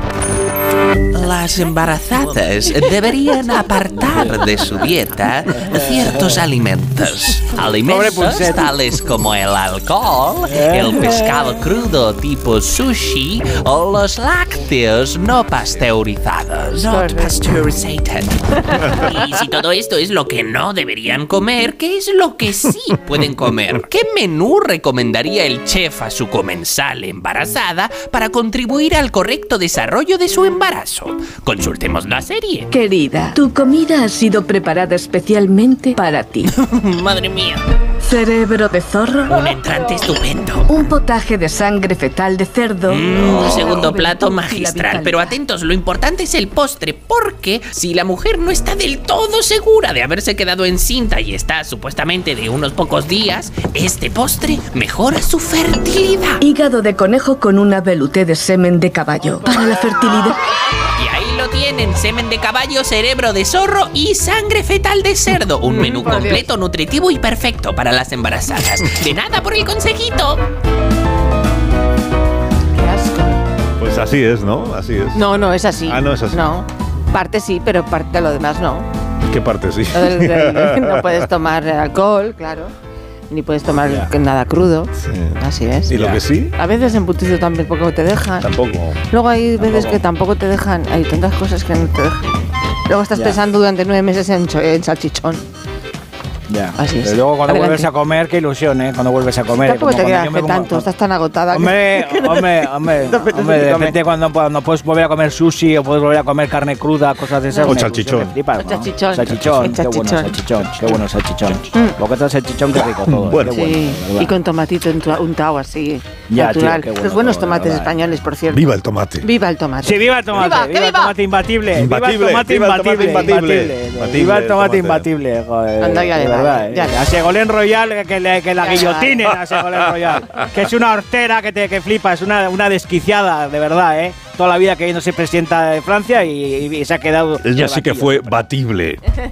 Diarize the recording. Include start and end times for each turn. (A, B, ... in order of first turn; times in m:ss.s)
0:01.1-0:32.7 A
0:07.9-0:08.7 B
0:10.5-0:10.9 B
0:16.8-0:17.4 C
0:32.7-0:36.6 D
0:36.6-0:37.6 A
0:38.0-0:39.5 D
0:39.3-0:40.7 A
0:40.7-0:45.4 D
0:42.9-0:56.4 A
0:56.4-1:00.4 D
1:01.0-1:10.4 A
1:05.7-1:06.5 C
1:12.8-1:13.4 C
1:13.8-1:16.5 E
1:15.2-1:18.9 C
1:19.3-1:21.3 E
1:19.9-1:22.7 C
1:23.3-1:26.0 C
1:25.0-1:26.6 E
1:25.9-1:26.2 B
1:26.6-1:28.5 C
1:28.4-1:29.0 E
1:29.1-1:32.3 C
1:29.6-1:30.0 B
1:32.9-1:35.4 C
1:36.5-1:40.8 B
1:36.8-1:37.9 C
1:39.6-1:44.0 C
1:41.5-1:54.3 B
1:47.6-1:48.4 E
1:48.6-1:50.4 C
1:49.4-1:49.7 E
1:51.7-1:52.0 C
1:53.1-1:53.6 E
1:53.5-2:01.1 C
1:56.3-1:58.0 B
1:58.5-1:59.3 E
1:59.8-2:18.3 B
2:01.8-2:05.1 E
2:05.8-2:07.0 C
2:08.6-2:09.2 C
2:10.2-2:10.5 E
2:17.4-2:19.0 E